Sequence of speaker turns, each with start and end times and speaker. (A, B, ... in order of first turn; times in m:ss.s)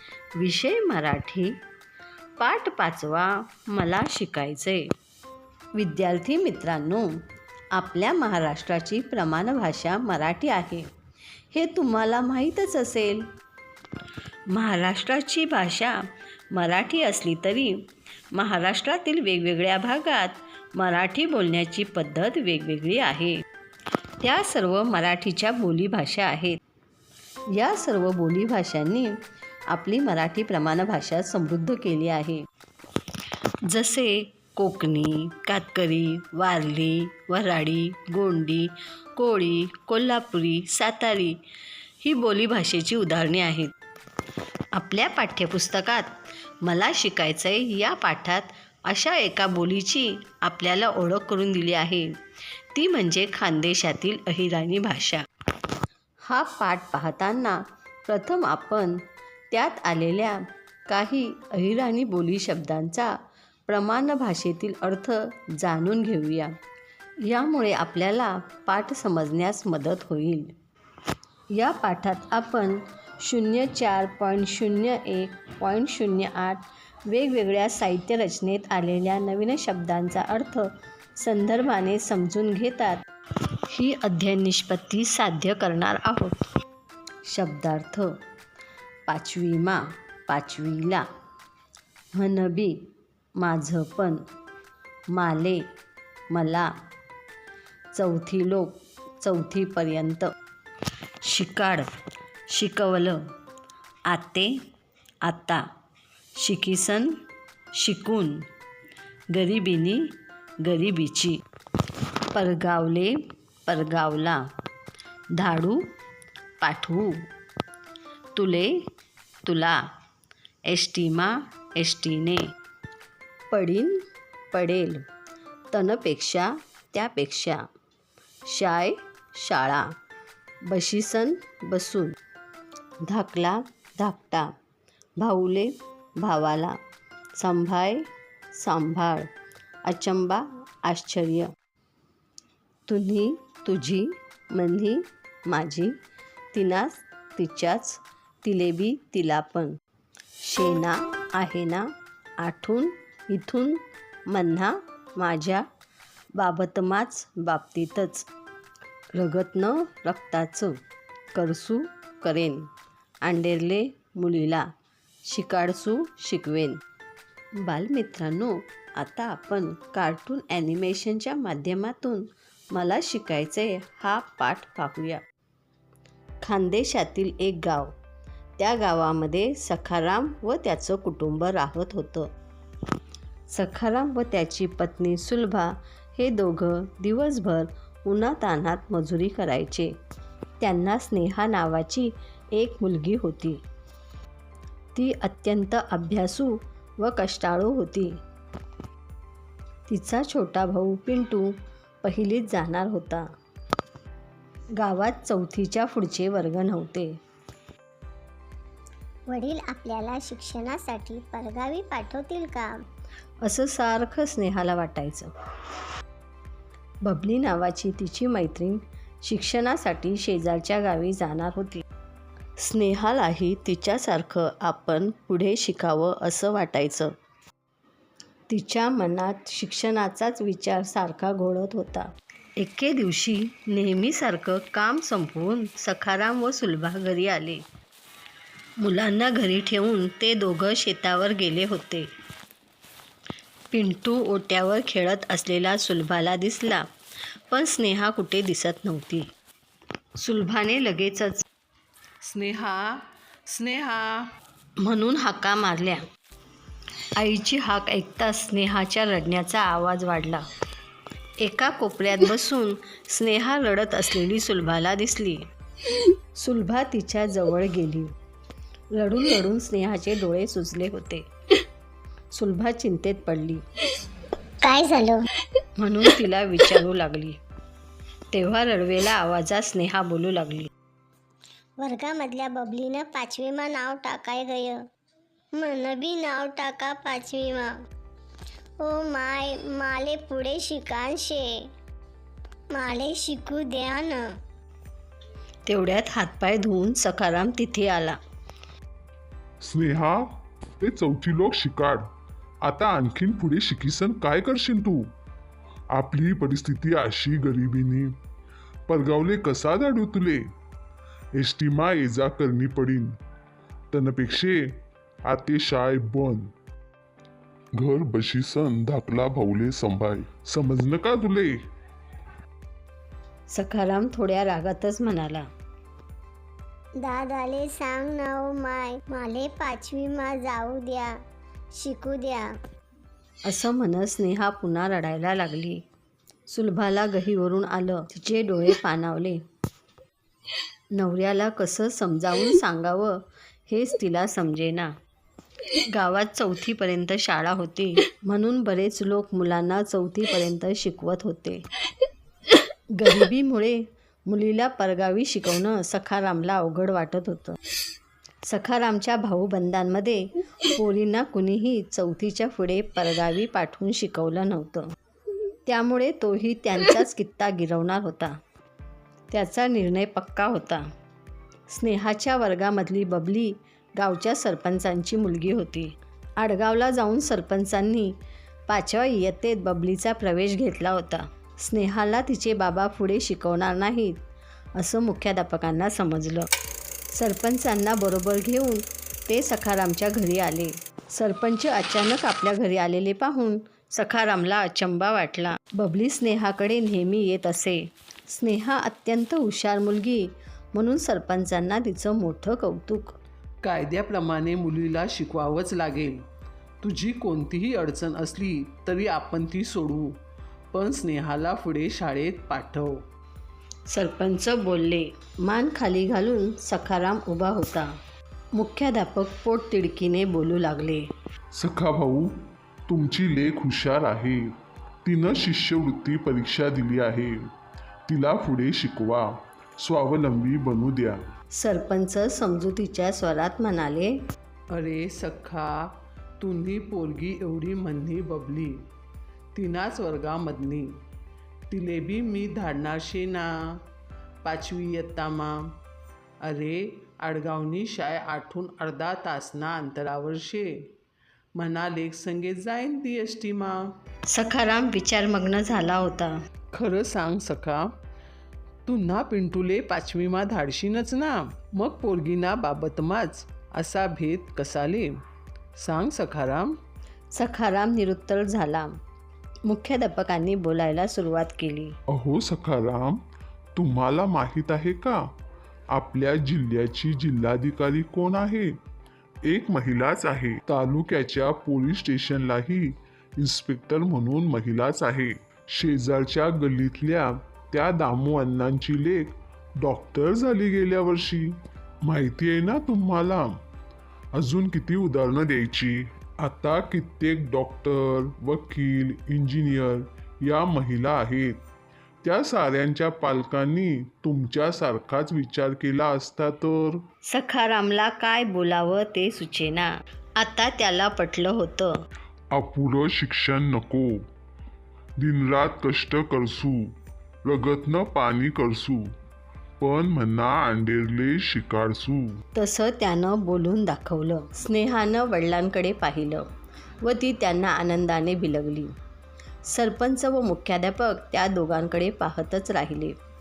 0:00.4-0:01.6 A
0:02.4-0:04.8 A
0:05.8-0:07.1 A
0:07.7-0:10.9 A
0:11.5-0:13.2 A
0:14.5-0:17.8 A
0:18.3-0:23.4 A
0:24.2-0:26.6 A
0:27.5-0:29.1 A
0:29.7-0:32.4 A
0:33.6-0:41.4 A
0:42.0-0:43.7 A
0:44.7-0:52.1 A
0:52.7-0:55.2 A
0:56.2-1:03.1 A
1:03.7-1:06.5 A
1:07.2-1:10.5 A
1:11.5-1:23.0 A
1:23.7-1:26.3 A
1:27.2-1:28.1 A
1:29.1-1:31.0 A
1:32.1-1:32.8 A
1:33.4-1:34.2 A
1:35.1-1:35.6 A
1:36.3-1:36.7 A
1:37.9-1:40.3 A
1:41.2-1:41.9 A
1:42.5-1:43.2 A
1:44.1-1:44.5 A
1:45.2-1:45.6 A
1:46.4-1:47.2 A
1:47.7-1:48.4 A
1:49.3-1:51.4 A
1:52.3-1:54.4 A
1:55.3-1:55.8 A
1:56.6-1:57.2 A
1:58.3-1:58.8 A
1:59.4-1:59.8 A
2:00.7-2:02.5 A
2:03.5-2:04.0 A
2:04.5-2:05.0 A
2:05.7-2:07.6 A
2:08.4-2:09.9 A
2:10.6-2:12.2 A
2:13.0-2:14.5 A
2:15.2-2:16.8 A
2:17.4-2:19.3 A
2:19.8-2:21.5 A
2:22.9-2:25.9 A
2:26.5-2:29.8 A
2:30.4-2:35.6 A
2:36.4-2:38.3 A
2:39.1-2:40.8 A
2:41.3-2:42.7 A
2:43.2-2:44.7 A
2:45.3-2:46.8 A
2:47.6-2:55.2 A
2:56.4-2:57.9 A
2:58.6-3:02.3 A
3:03.5-3:09.9 A
3:10.6-3:13.6 A
3:14.9-3:18.2 A
3:19.9-3:23.2 A
3:24.8-3:27.2 A
3:29.3-3:32.8 B
3:33.4-3:35.3 A
3:37.0-3:41.8 A
3:42.6-3:47.1 A
3:48.5-3:57.6 A
3:58.8-4:02.1 A
4:03.7-4:06.8 A
4:07.5-4:09.3 A
4:10.2-4:11.4 A
4:12.2-4:14.3 C
4:14.8-4:16.0 A
4:17.2-4:20.4 A
4:21.4-4:25.5 A
4:26.4-4:28.1 A
4:28.9-4:31.2 A
4:32.3-4:33.6 A
4:34.6-4:35.2 B
4:35.8-4:37.4 A
4:38.3-4:40.7 A
4:41.8-4:44.8 B
4:45.5-4:47.7 B
4:48.8-4:51.6 B
4:52.7-4:54.3 B
4:55.7-4:58.2 A
4:59.6-5:00.3 D
5:00.8-5:02.0 D
5:02.6-5:05.1 D
5:05.9-5:08.1 D
5:08.9-5:10.4 D
5:11.4-5:13.1 D
5:13.9-5:14.7 D
5:15.3-5:16.5 D
5:17.8-5:21.6 D
5:23.5-5:25.5 A
5:27.0-5:31.2 B
5:31.7-5:32.5 B
5:33.4-5:35.8 A
5:36.5-5:39.4 A
5:40.9-5:44.9 A
5:45.7-5:51.6 A
5:52.9-5:57.6 A
5:58.4-6:04.9 A
6:05.6-6:08.4 A
6:09.3-6:10.9 A
6:11.7-6:18.2 A
6:18.7-6:24.2 A
6:24.8-6:26.5 A
6:27.1-6:43.2 A
6:43.6-6:46.3 C
6:46.8-6:50.2 C
6:50.7-6:53.0 C
6:53.9-6:57.9 A
6:58.5-7:01.1 A
7:01.6-7:02.3 D
7:02.9-7:04.4 D
7:05.0-7:07.4 D
7:08.1-7:11.2 D
7:11.6-7:14.1 A
7:14.7-7:15.8 C
7:16.4-7:18.8 C
7:19.5-7:20.9 C
7:21.7-7:23.5 C
7:24.4-7:25.8 C
7:26.4-7:30.9 C
7:31.6-7:33.9 C
7:34.3-7:36.3 A
7:36.7-7:37.9 C
7:38.8-7:45.2 C
7:45.8-7:46.8 C
7:47.3-7:49.0 A
7:49.7-7:52.0 A
7:52.1-7:53.2 D
7:53.7-7:55.2 D
7:55.9-7:58.7 D
7:59.4-8:13.6 D
8:14.3-8:21.6 D
8:22.2-8:27.0 D
8:27.3-8:31.9 A
8:32.5-8:34.1 D
8:35.2-8:36.9 D
8:37.4-8:39.1 D
8:39.8-8:42.4 D
8:42.5-8:46.5 A
8:47.0-8:48.9 A
8:49.7-8:53.2 A